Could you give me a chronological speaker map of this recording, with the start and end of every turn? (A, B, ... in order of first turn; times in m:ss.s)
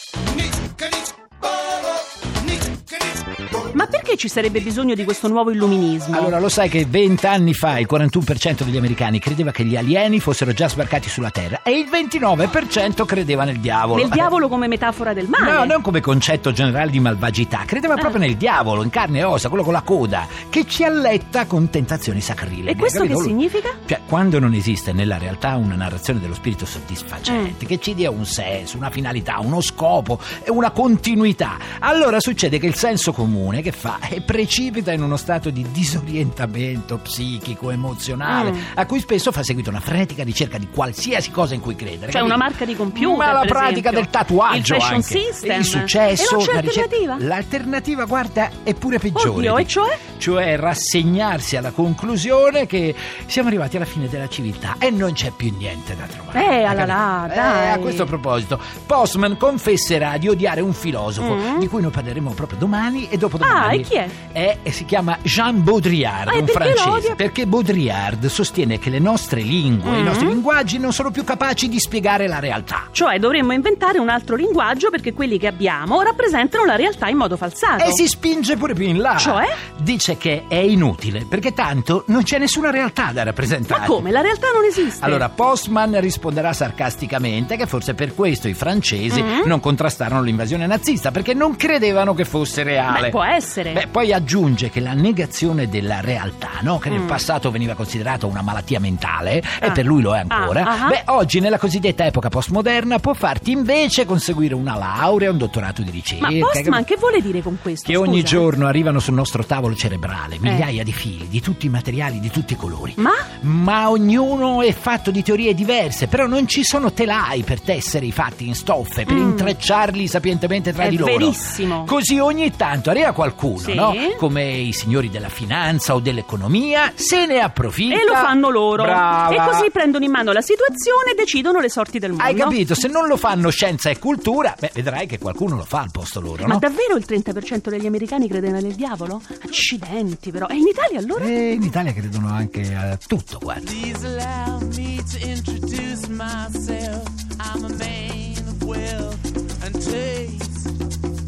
0:00.3-0:03.6 A
0:03.7-0:06.4 B
0:06.1-0:14.3 C
0:13.9-0:15.8 B
0:15.4-1:12.9 C
0:22.7-0:23.8 B
0:27.3-0:27.6 B
0:38.2-0:38.7 B
0:42.1-0:47.2 B
0:49.2-0:50.0 B
0:56.3-0:58.1 B
1:01.2-1:01.7 B
1:03.4-1:04.2 B
1:06.3-1:07.2 B
1:09.8-1:10.4 B
1:12.9-1:18.0 B
1:17.8-1:24.1 C
1:19.2-1:19.6 B
1:23.7-1:25.3 B
1:25.0-1:33.2 C
1:29.1-1:29.5 B
1:32.9-1:33.8 B
1:33.7-1:46.9 C
1:36.9-1:37.2 B
1:39.6-1:41.0 B
1:46.2-1:48.5 B
1:47.9-2:09.7 C
1:50.4-1:50.7 B
1:53.0-1:53.3 B
1:59.1-1:59.6 B
2:00.8-2:01.9 B
2:03.6-2:04.2 B
2:07.9-2:12.6 B
2:12.2-2:16.6 C
2:16.4-2:21.4 B
2:21.2-2:23.8 C
2:23.6-2:30.7 D